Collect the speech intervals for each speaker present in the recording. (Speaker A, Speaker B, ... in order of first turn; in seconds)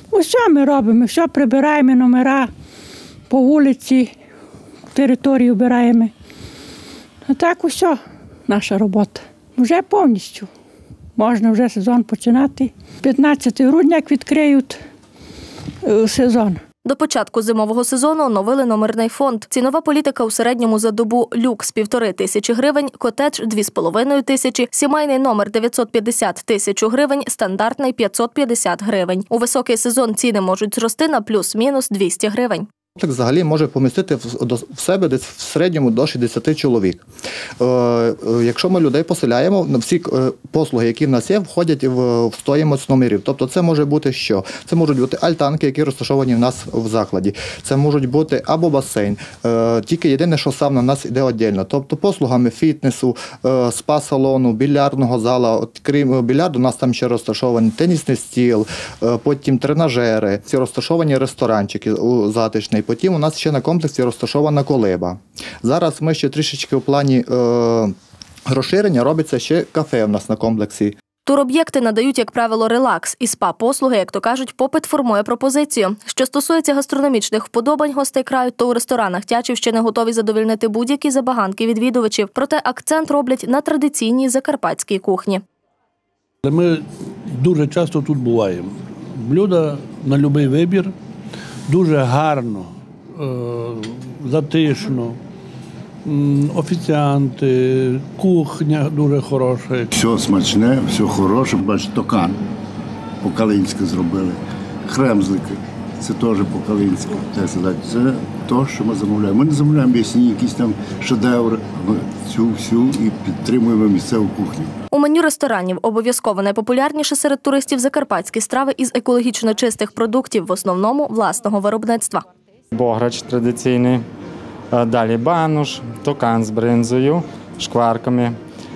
Speaker A: 0.1-2.5, 3.3-4.2, 4.9-6.1, 7.3-10.5, 11.2-14.8, 15.8-16.6
Speaker B: 16.8-32.7, 71.2-85.4, 114.9-122.2
Speaker C: 33.0-37.0, 37.6-67.9, 68.5-70.9
Speaker D: 86.4-86.8, 87.3-88.7, 89.2-90.9, 91.7-95.2, 96.1-99.9
Speaker E: 99.9-102.4, 103.2-114.7
Speaker F: 122.7-124.0, 124.7-128.3